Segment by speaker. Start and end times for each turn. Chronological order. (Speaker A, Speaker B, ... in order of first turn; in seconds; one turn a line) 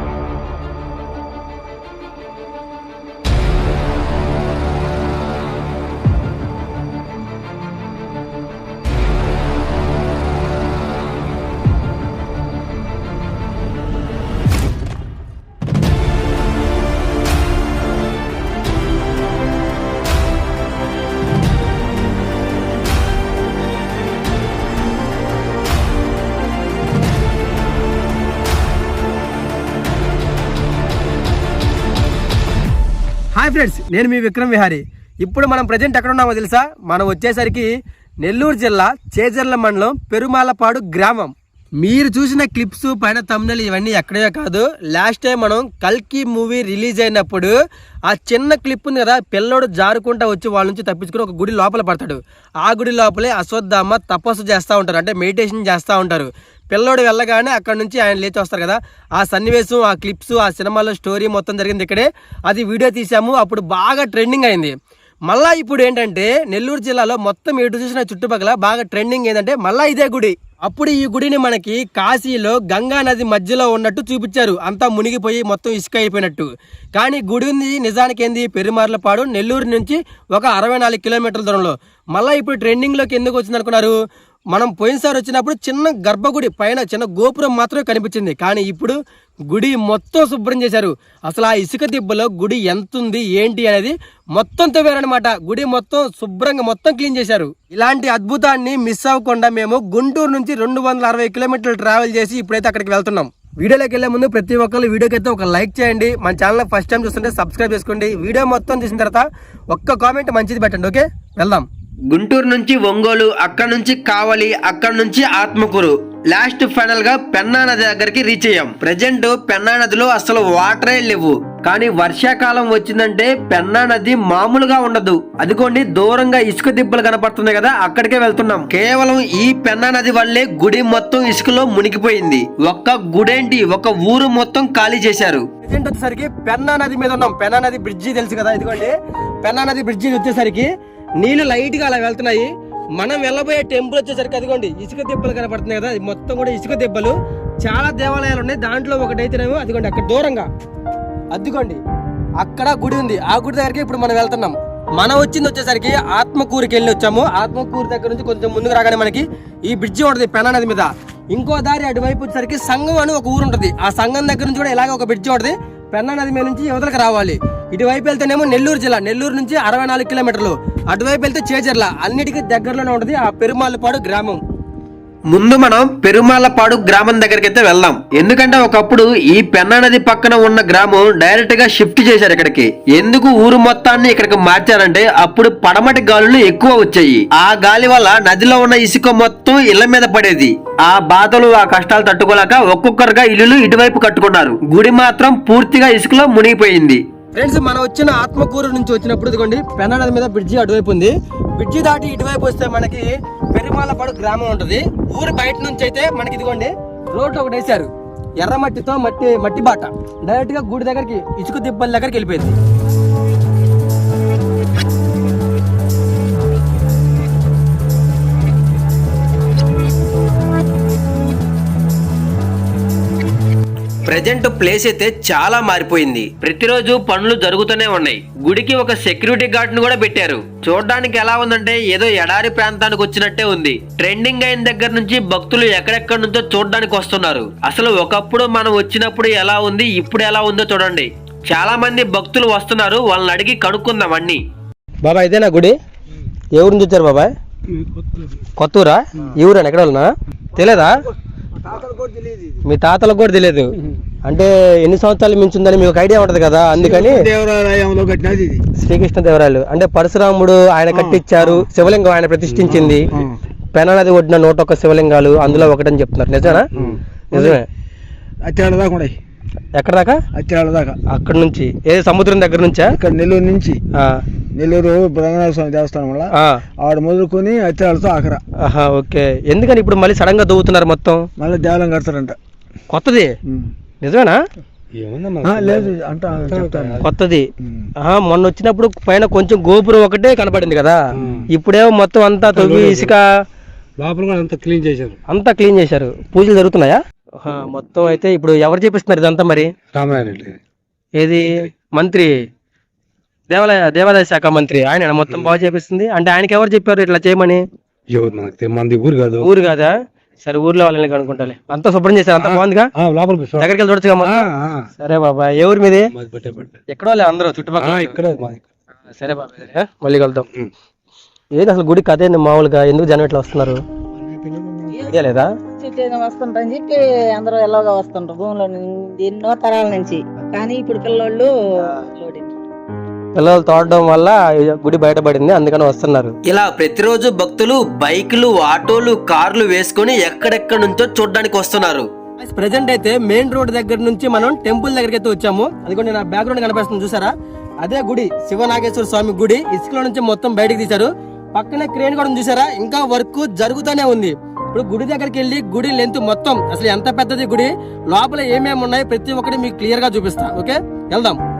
Speaker A: 33.3-37.7
Speaker A: 38.2-47.5
Speaker A: 48.1-64.7
Speaker A: 65.3-84.0
Speaker A: 84.5-89.0
Speaker A: 89.5-111.7
Speaker B: 112.1-135.5
Speaker A: 135.6-150.5
Speaker A: 151.3-151.8
Speaker A: 152.4-174.4
Speaker B: 175.3-197.0
Speaker A: 197.3-212.6
Speaker B: 224.1-244.4
Speaker A: 245.0-245.8
Speaker A: 246.6-247.3
Speaker A: 248.6-250.9
Speaker C: 251.6-252.6
Speaker A: 252.7-253.7
Speaker A: 254.2-257.2
Speaker C: 256.7-258.6
Speaker A: 258.8-263.1
Speaker C: 260.9-261.7
Speaker C: 262.7-263.4
Speaker A: 263.7-266.7
Speaker C: 266.5-267.6
Speaker A: 267.3-267.6
Speaker C: 268.4-269.1
Speaker A: 269.8-270.2
Speaker C: 270.3-271.0
Speaker A: 271.1-272.9
Speaker C: 272.9-273.8
Speaker C: 274.5-278.4
Speaker A: 278.6-281.2
Speaker C: 281.4-282.4
Speaker A: 282.9-283.3
Speaker A: 284.0-284.4
Speaker D: 284.9-287.0
Speaker C: 285.4-287.0
Speaker A: 287.0-287.4
Speaker C: 287.6-287.9
Speaker A: 288.0-291.0
Speaker A: 291.5-293.2
Speaker D: 292.5-293.1
Speaker D: 294.0-295.1
Speaker A: 295.3-299.7
Speaker D: 299.9-300.6
Speaker A: 301.2-302.3
Speaker A: 303.5-307.6
Speaker D: 308.1-309.5
Speaker A: 309.4-312.9
Speaker D: 312.4-313.6
Speaker A: 313.6-314.4
Speaker D: 314.2-314.9
Speaker A: 315.0-316.1
Speaker D: 316.2-316.8
Speaker A: 316.9-318.2
Speaker D: 317.8-318.6
Speaker A: 319.1-320.4
Speaker A: 321.6-323.8
Speaker A: 325.0-325.5
Speaker E: 325.8-331.5
Speaker E: 332.1-332.5
Speaker A: 333.3-336.3
Speaker B: 336.5-342.1
Speaker A: 342.4-361.4